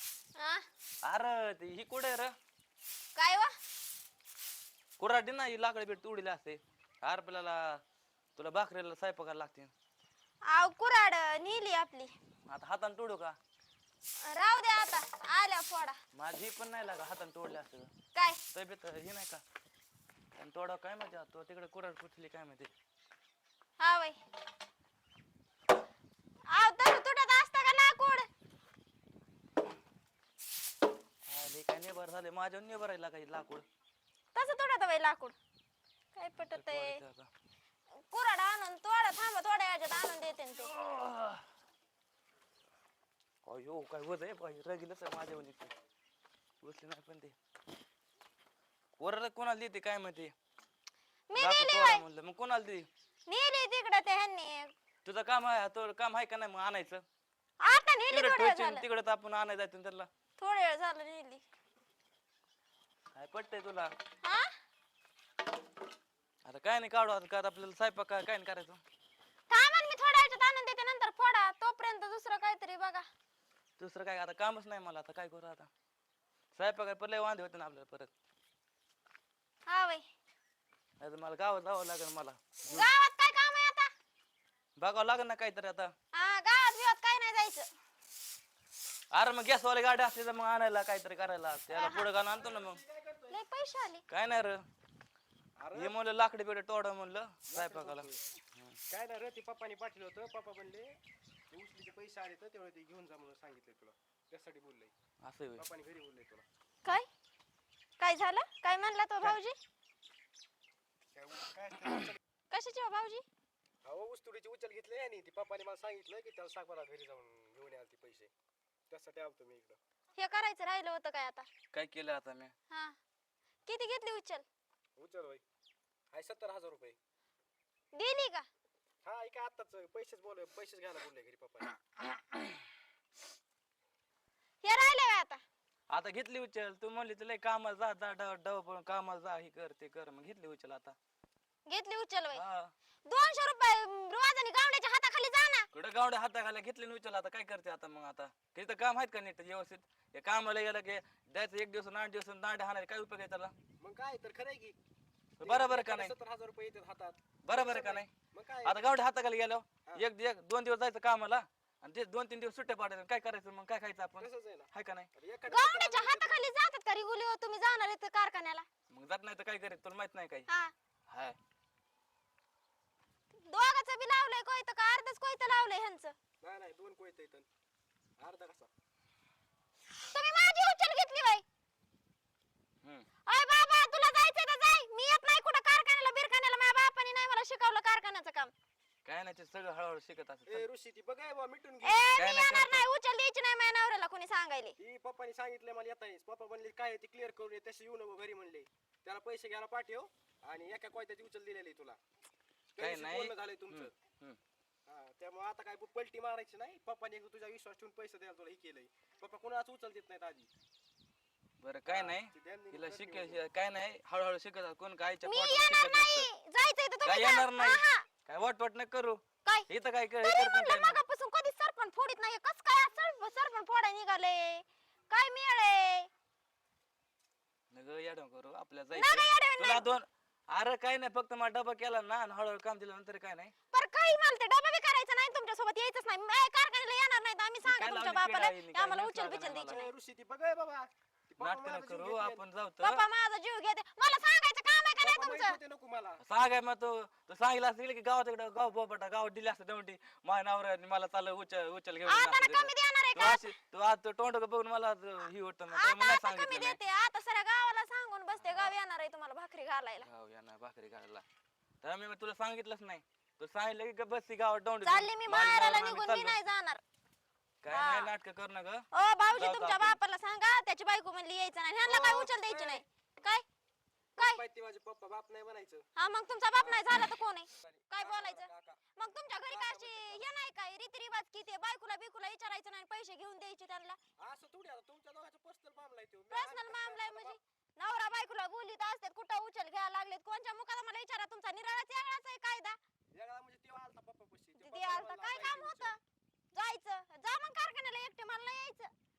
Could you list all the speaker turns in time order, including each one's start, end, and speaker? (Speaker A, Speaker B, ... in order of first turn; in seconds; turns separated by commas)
Speaker A: 0.3-0.7, Speaker B: 1.0-2.3, Speaker A: 3.1-3.5, Speaker B: 5.0-7.8, Speaker B: 8.3-9.7, Speaker A: 10.4-12.1, Speaker B: 12.5-13.4, Speaker A: 14.2-16.0, Speaker B: 16.1-17.9, Speaker A: 18.1-18.4, Speaker B: 18.5-19.4, Speaker B: 20.3-22.7, Speaker A: 23.8-24.2, Speaker A: 26.5-28.3, Speaker B: 31.3-33.6, Speaker A: 34.3-35.4, Speaker A: 36.1-37.0, Speaker B: 36.4-37.3, Speaker A: 38.1-40.7, Speaker B: 40.5-41.5, Speaker B: 43.4-45.7, Speaker B: 46.6-47.4, Speaker B: 49.0-50.3, Speaker A: 51.3-52.0, Speaker B: 51.4-52.9, Speaker A: 53.3-54.7, Speaker B: 55.0-57.0, Speaker A: 57.6-58.8, Speaker B: 58.1-60.1, Speaker A: 60.4-61.4, Speaker B: 63.1-63.9, Speaker A: 64.2-64.5, Speaker B: 66.4-68.8, Speaker A: 69.5-73.1, Speaker B: 73.8-75.7, Speaker B: 76.5-78.1, Speaker A: 79.7-80.1, Speaker B: 81.0-82.9, Speaker A: 82.7-83.9, Speaker B: 84.8-85.9, Speaker A: 86.1-87.7, Speaker B: 89.1-92.8, Speaker A: 91.7-92.1, Speaker C: 92.3-93.4, Speaker A: 93.3-94.0, Speaker B: 94.1-94.6, Speaker C: 95.6-96.0, Speaker B: 95.7-98.8, Speaker C: 97.5-98.2, Speaker C: 98.9-100.9, Speaker C: 101.5-104.9, Speaker B: 105.2-105.7, Speaker C: 105.5-106.4, Speaker A: 108.0-109.6, Speaker C: 111.1-112.2, Speaker A: 112.5-113.2, Speaker C: 113.8-118.3, Speaker C: 118.9-119.8, Speaker A: 120.2-121.5, Speaker B: 121.7-122.5, Speaker A: 122.7-123.0, Speaker A: 123.7-124.4, Speaker C: 125.0-125.4, Speaker C: 126.1-127.0, Speaker A: 127.9-128.5, Speaker C: 129.0-131.7, Speaker A: 134.6-135.4, Speaker B: 135.9-140.9, Speaker A: 141.7-142.4, Speaker B: 142.3-142.7, Speaker A: 143.1-145.7, Speaker B: 145.7-153.5, Speaker C: 153.8-154.8, Speaker B: 155.4-156.1, Speaker C: 155.4-158.8, Speaker B: 157.4-158.1, Speaker B: 158.6-165.1, Speaker C: 164.2-166.4, Speaker A: 165.5-168.7, Speaker B: 168.9-170.5, Speaker A: 170.5-170.7, Speaker B: 171.1-171.4, Speaker A: 173.3-176.2, Speaker C: 176.4-177.5, Speaker C: 178.2-178.7, Speaker A: 180.1-181.4, Speaker B: 182.8-183.1, Speaker A: 183.2-188.5, Speaker B: 189.0-190.7, Speaker C: 190.5-192.0, Speaker A: 191.8-194.8, Speaker B: 192.1-192.9, Speaker C: 194.8-202.0, Speaker C: 202.7-203.9, Speaker B: 202.8-204.4, Speaker C: 204.8-210.5, Speaker B: 211.6-216.3, Speaker C: 211.9-213.4, Speaker A: 215.2-218.1, Speaker B: 217.0-221.0, Speaker A: 220.2-226.1, Speaker B: 227.7-233.5, Speaker A: 228.9-229.9, Speaker A: 233.7-239.9, Speaker B: 237.6-239.8, Speaker C: 239.7-242.4, Speaker B: 241.4-243.0, Speaker A: 242.8-245.6, Speaker C: 245.0-246.2, Speaker B: 246.2-256.8, Speaker A: 252.0-253.5, Speaker A: 255.7-260.1, Speaker B: 258.3-258.7, Speaker B: 260.0-261.2, Speaker B: 261.8-266.4, Speaker A: 264.8-266.8, Speaker B: 267.6-270.0, Speaker A: 267.7-268.1, Speaker A: 268.9-273.4, Speaker C: 271.8-272.8, Speaker C: 274.2-275.9, Speaker A: 275.9-284.0, Speaker C: 276.6-277.0, Speaker C: 277.6-278.8, Speaker C: 279.5-280.3, Speaker C: 284.2-287.4, Speaker A: 286.3-292.8, Speaker C: 293.1-296.0, Speaker A: 294.6-296.0, Speaker A: 296.5-298.9